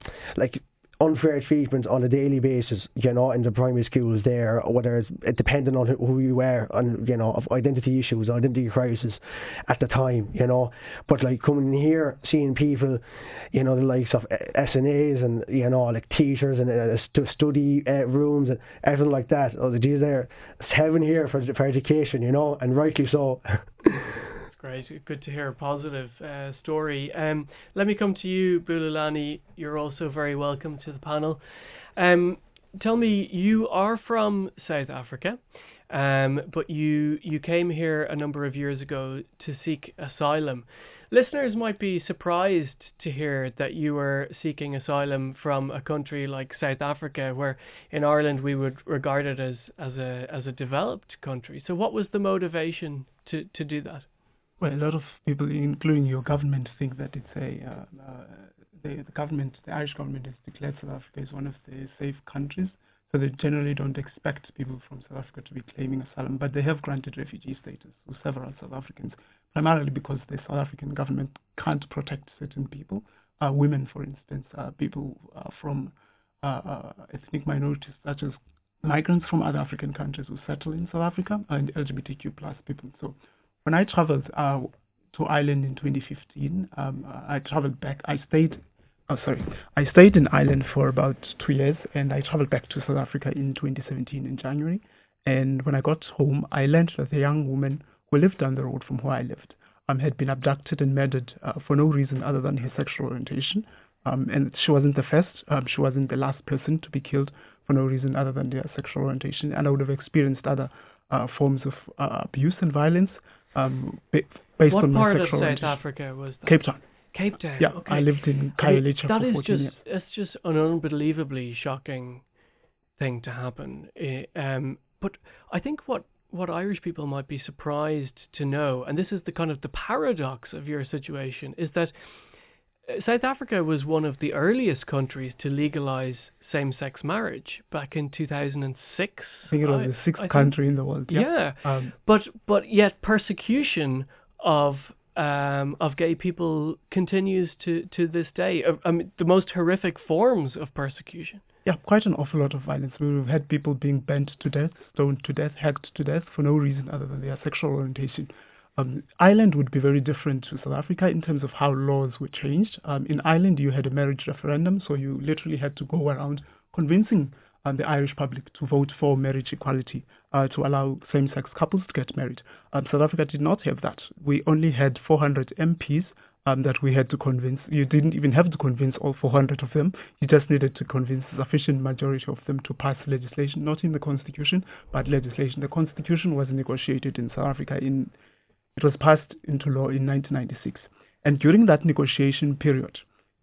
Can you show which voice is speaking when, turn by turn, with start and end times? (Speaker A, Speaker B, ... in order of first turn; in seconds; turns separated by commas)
Speaker A: 0.3-24.1, Speaker B: 24.5-54.0, Speaker C: 54.6-115.8, Speaker B: 114.7-116.6, Speaker C: 116.4-116.8, Speaker B: 117.1-122.2, Speaker C: 117.6-119.8, Speaker B: 123.0-131.9, Speaker B: 132.9-140.6, Speaker C: 139.5-141.9, Speaker B: 141.1-151.4, Speaker C: 151.6-188.1, Speaker C: 188.8-193.0